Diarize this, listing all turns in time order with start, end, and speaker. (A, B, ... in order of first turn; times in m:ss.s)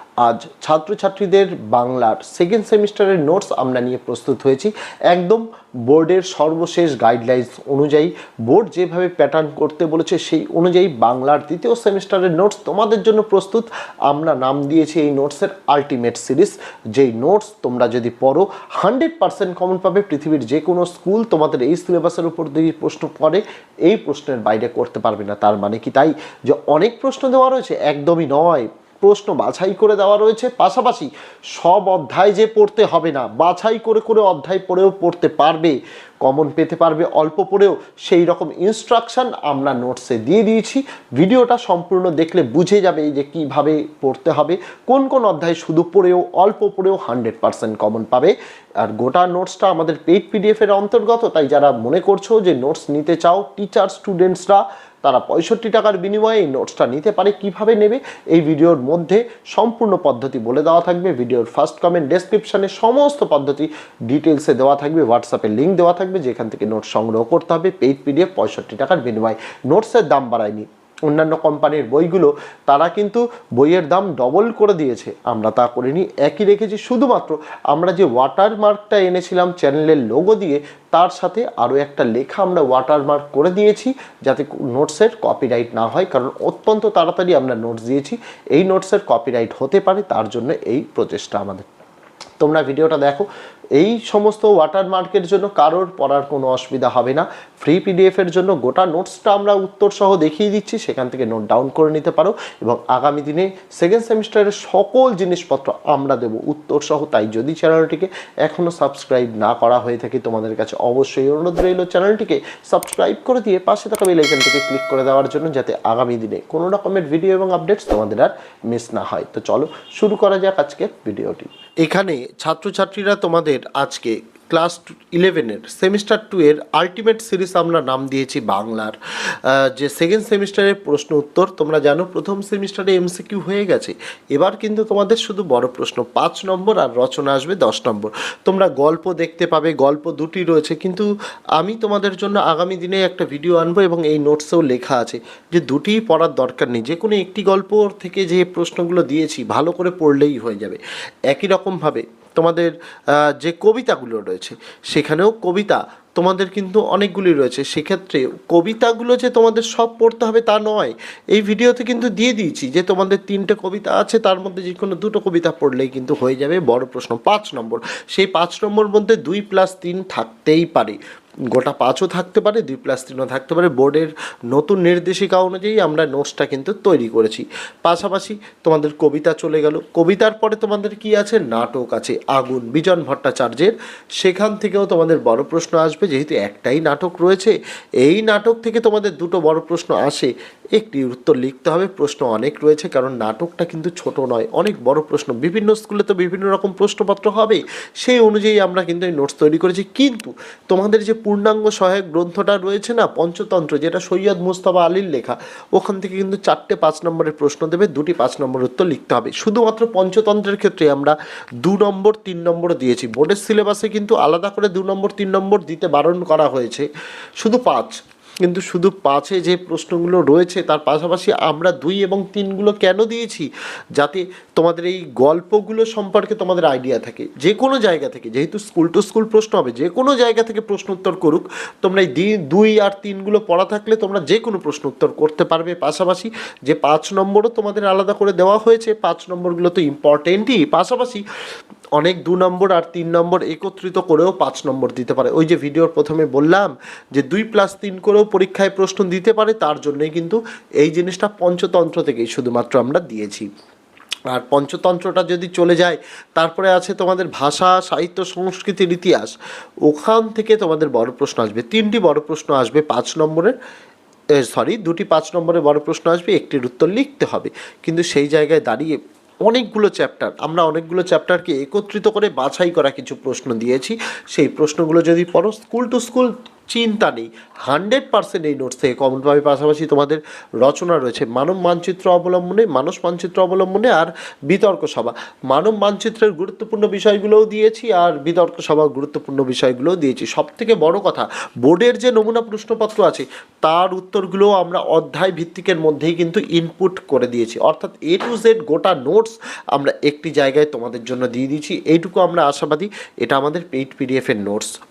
0:00.2-1:31.7 A
1:32.4-2:30.8 A
2:31.3-2:32.7 A
2:33.3-2:51.0 A
2:51.5-3:36.9 A
3:37.4-4:01.2 A
4:02.0-4:13.5 A
4:14.3-4:19.3 A
4:19.9-4:23.5 A
4:24.4-5:04.7 A